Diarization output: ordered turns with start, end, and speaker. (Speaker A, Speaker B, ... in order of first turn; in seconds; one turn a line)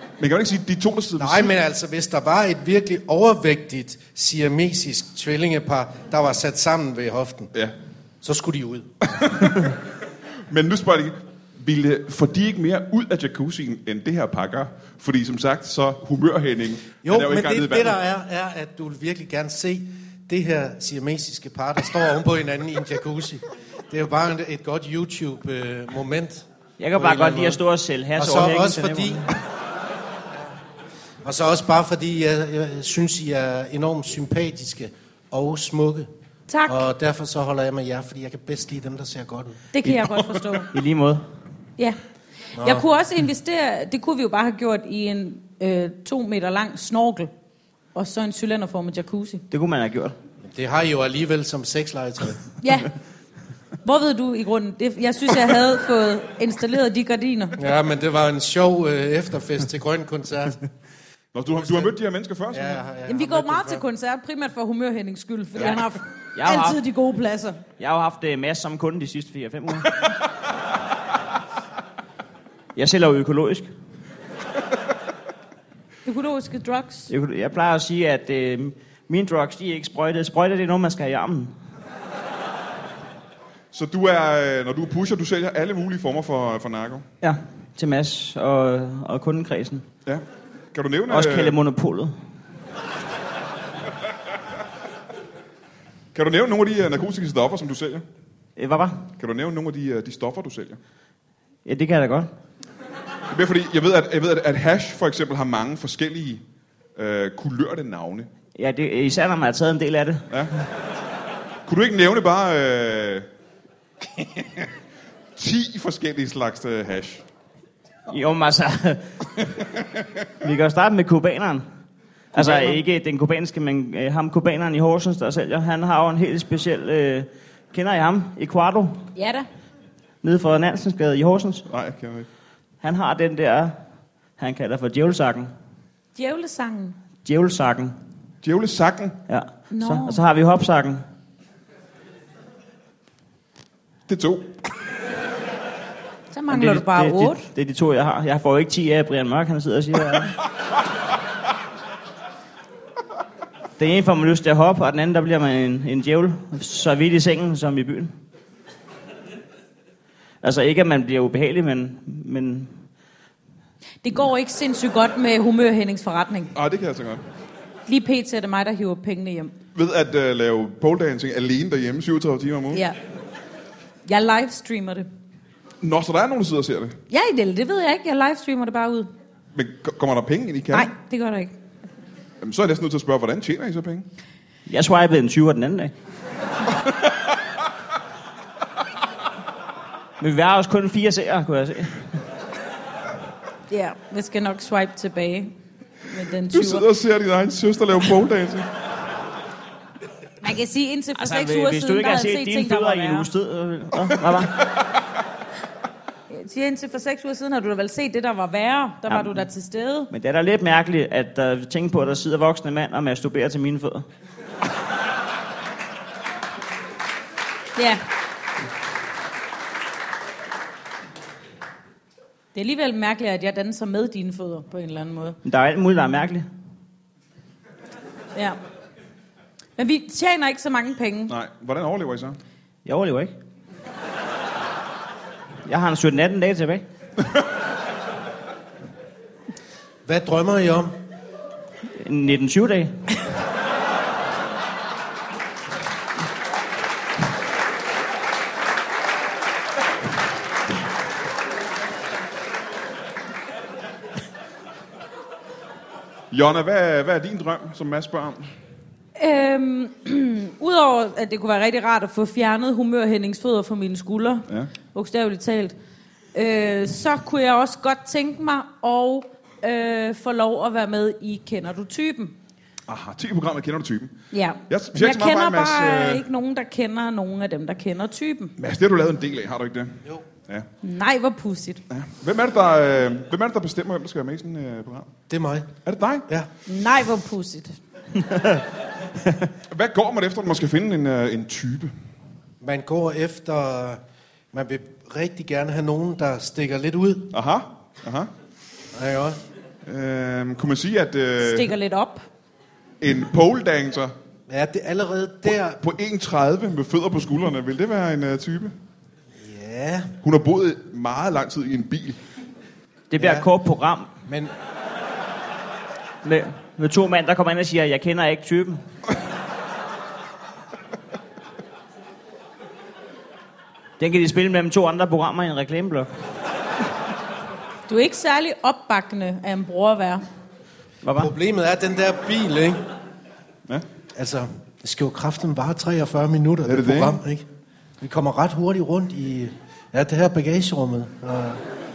Speaker A: 0.2-1.5
Speaker B: 1.2-7.5
Speaker B: 8.2-8.9
Speaker A: 9.1-9.8
Speaker A: 10.5-18.0
Speaker B: 17.0-27.6
Speaker C: 26.8-29.4
Speaker B: 28.2-29.3
Speaker B: 31.2-36.1
Speaker D: 36.5-36.9
Speaker B: 36.7-39.6
Speaker D: 39.7-40.7
Speaker C: 40.7-41.2
Speaker D: 42.6-47.3
Speaker B: 42.6-42.9
Speaker D: 48.0-49.4
Speaker C: 49.5-50.1
Speaker B: 50.4-52.5
Speaker D: 52.6-52.9
Speaker D: 53.8-57.6
Speaker B: 57.6-60.6
Speaker A: 61.3-62.8
Speaker B: 61.5-62.0
Speaker B: 62.5-63.8
Speaker D: 63.1-67.6
Speaker C: 66.4-66.8
Speaker C: 67.8-70.0
Speaker C: 72.8-73.7
Speaker D: 76.0-77.1
Speaker C: 77.1-81.5
Speaker A: 83.7-87.1
Speaker C: 87.2-89.9
Speaker A: 90.1-91.6
Speaker C: 91.1-92.1
Speaker A: 96.1-98.0
Speaker C: 98.6-99.0
Speaker A: 99.2-100.8
Speaker C: 101.7-102.3
Speaker A: 103.3-106.4
Speaker A: 107.0-108.3
Speaker C: 108.6-110.3
Speaker A: 111.7-113.3
Speaker A: 114.2-114.7
Speaker A: 115.4-117.2
Speaker C: 118.1-119.3
Speaker C: 120.4-121.7
Speaker C: 122.3-129.1
Speaker D: 129.2-129.5
Speaker C: 130.2-131.7
Speaker A: 131.7-132.3
Speaker C: 132.8-133.7
Speaker C: 134.4-135.5
Speaker D: 136.2-137.0
Speaker C: 137.2-138.0
Speaker A: 138.4-139.2
Speaker C: 139.3-141.0
Speaker D: 139.7-140.2
Speaker A: 144.1-144.6
Speaker D: 146.3-147.5
Speaker C: 146.5-150.3
Speaker C: 153.8-158.1
Speaker C: 160.4-162.7
Speaker D: 164.0-166.5
Speaker A: 166.6-167.2
Speaker D: 167.9-169.5
Speaker A: 169.8-172.8
Speaker D: 172.7-173.0
Speaker D: 174.1-175.1
Speaker A: 175.8-177.0
Speaker D: 177.1-179.1
Speaker A: 179.5-180.9
Speaker D: 180.7-181.5
Speaker A: 182.4-184.1
Speaker C: 184.7-185.9
Speaker C: 190.2-192.1
Speaker D: 193.7-195.5
Speaker D: 196.1-196.9
Speaker A: 196.5-198.7
Speaker D: 200.4-203.3
Speaker C: 201.2-204.6
Speaker D: 206.3-210.1
Speaker C: 209.1-209.4
Speaker C: 210.1-214.1
Speaker D: 217.8-218.0
Speaker D: 222.6-225.4
Speaker C: 225.4-226.5
Speaker D: 229.8-231.3
Speaker A: 231.3-232.4
Speaker C: 232.8-233.3
Speaker C: 235.7-236.8
Speaker B: 240.1-241.0
Speaker C: 241.9-243.0
Speaker A: 256.3-258.5
Speaker D: 259.2-265.8
Speaker D: 266.3-272.4
Speaker A: 272.9-274.1
Speaker D: 274.3-278.6
Speaker A: 274.7-276.2
Speaker A: 278.6-280.7
Speaker D: 280.8-281.8
Speaker A: 281.9-285.1
Speaker B: 285.3-285.7
Speaker A: 285.9-286.3
Speaker D: 286.7-287.8
Speaker C: 288.3-288.6
Speaker A: 289.7-291.9
Speaker B: 292.6-294.0
Speaker B: 294.5-297.4
Speaker A: 297.3-298.3
Speaker B: 298.9-299.4
Speaker A: 299.9-301.7
Speaker D: 301.4-302.2
Speaker A: 303.0-304.1
Speaker B: 304.5-305.8
Speaker A: 305.7-308.7
Speaker B: 309.4-310.1
Speaker A: 310.2-312.2
Speaker C: 313.1-314.1
Speaker B: 313.2-313.5
Speaker B: 314.3-314.5
Speaker C: 316.2-318.8
Speaker C: 324.0-326.1
Speaker D: 327.9-330.2
Speaker C: 331.0-331.3
Speaker B: 331.1-332.8
Speaker B: 334.1-337.5
Speaker A: 336.6-337.2
Speaker B: 338.0-341.6